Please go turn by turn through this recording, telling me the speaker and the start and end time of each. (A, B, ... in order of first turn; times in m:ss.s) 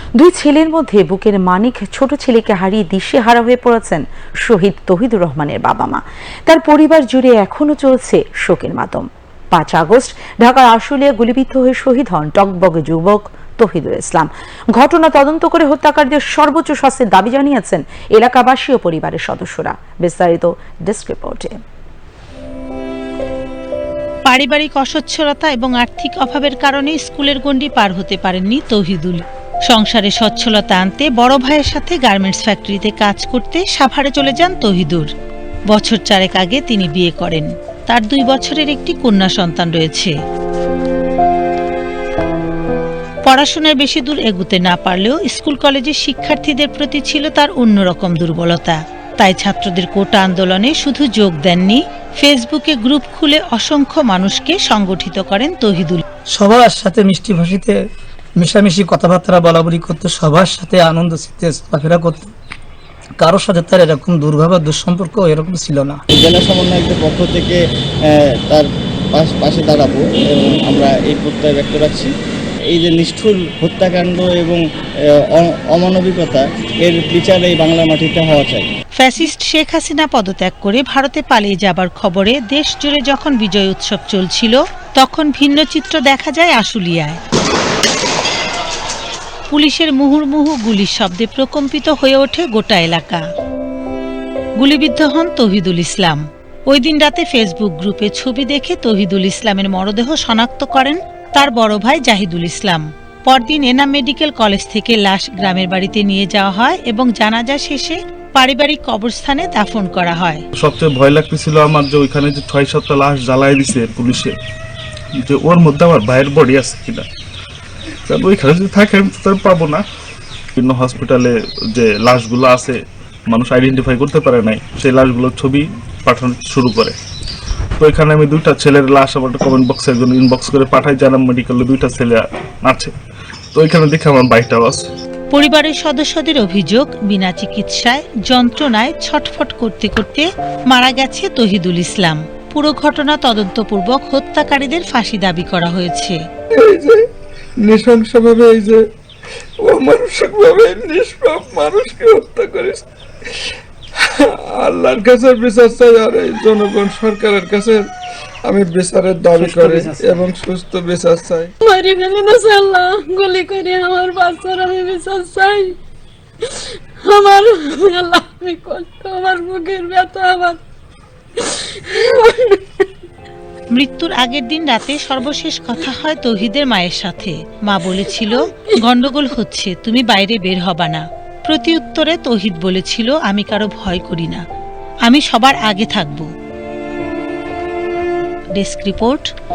0:00.2-0:21.6 A
0:24.3-0:35.1 B
0:35.7-0:40.1 B
0:43.3-0:56.0 B
0:56.3-0:57.8 C
0:58.4-1:02.3 C
1:03.2-1:06.0 C
1:06.1-1:07.6 D
1:08.1-1:12.1 D
1:12.7-1:14.6 D
1:15.4-1:18.7 D
1:19.0-1:27.2 B
1:29.5-1:33.2 B
1:34.6-1:50.4 B
1:50.6-1:54.3 E
1:55.2-1:57.0 E
1:58.1-1:59.8 E
2:00.6-2:02.8 E
2:03.3-2:07.0 E
2:07.8-2:12.9 E
2:13.5-2:14.9 E
2:15.3-2:26.2 B
2:26.5-2:27.0 F
2:27.6-2:28.8 F
2:29.6-2:32.8 F
2:34.2-2:37.8 F
2:38.5-2:41.5 F
2:39.4-2:40.3 C
2:41.6-2:45.8 G
2:47.0-2:50.6 G
2:51.4-2:52.6 G
2:53.7-3:04.4 B
3:05.1-3:06.3 B
3:08.6-3:09.3 B